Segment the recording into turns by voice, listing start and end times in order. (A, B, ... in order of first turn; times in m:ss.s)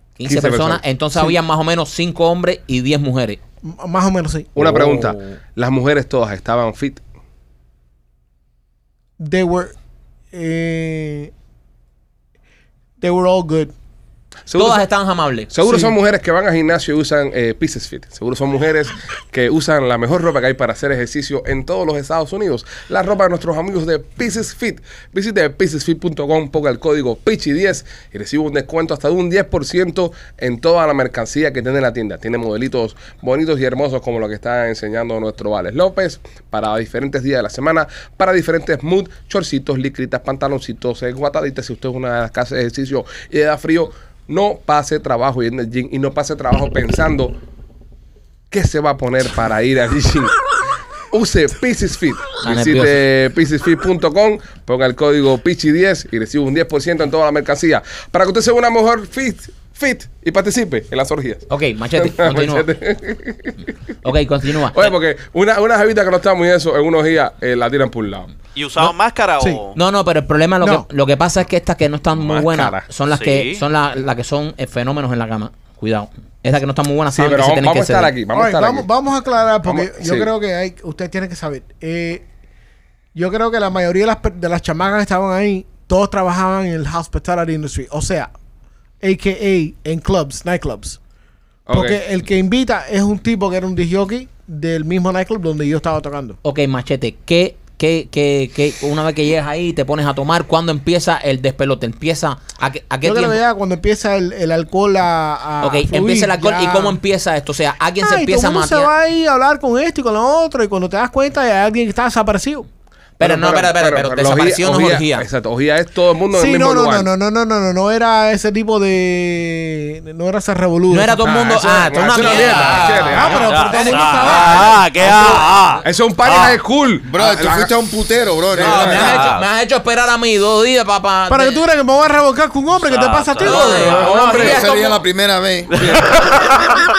0:00.2-0:03.4 A
0:00.2-0:01.4 B
0:03.7-0:04.6 C
0:04.6-0:07.0 B
0:04.6-0:05.4 A
0:09.2-0:09.7 C
0:10.3-0:11.3 C
0:13.0-0:13.7 C
0:14.5-0:14.8 B
0:14.6-0:15.5 A
0:15.5-0:47.4 B
0:15.7-0:15.9 C
0:48.5-0:50.4 B
0:51.1-1:03.6 B
0:52.4-0:53.0 A
1:01.5-1:02.7 A
1:04.0-1:04.9 A
1:04.7-1:08.3 B
1:08.6-1:09.8 D
1:08.8-1:09.6 C
1:09.7-1:18.1 A
1:12.1-1:12.8 B
1:13.1-1:13.6 D
1:17.1-1:18.9 B
1:18.3-1:22.2 C
1:19.6-1:20.3 B
1:23.2-1:28.3 C
1:29.0-1:31.0 C
1:31.7-1:32.0 B
1:31.7-1:36.4 C
1:36.4-1:43.4 A
1:43.0-1:47.0 C
1:45.6-1:48.9 A
1:48.0-1:52.7 C
1:53.2-1:55.3 A
1:53.2-1:57.1 B
1:56.3-2:01.3 C
2:00.9-2:04.6 A
2:01.2-2:03.5 B
2:02.2-2:05.5 C
2:03.3-2:06.6 D
2:05.8-2:07.7 B
2:07.0-2:09.0 E
2:08.5-2:09.2 B
2:08.6-2:11.6 A
2:08.6-2:09.5 D
2:11.3-2:14.4 C
2:12.8-2:13.9 D
2:13.4-2:15.0 A
2:13.4-2:14.6 B
2:14.3-2:15.8 E
2:15.8-2:16.6 B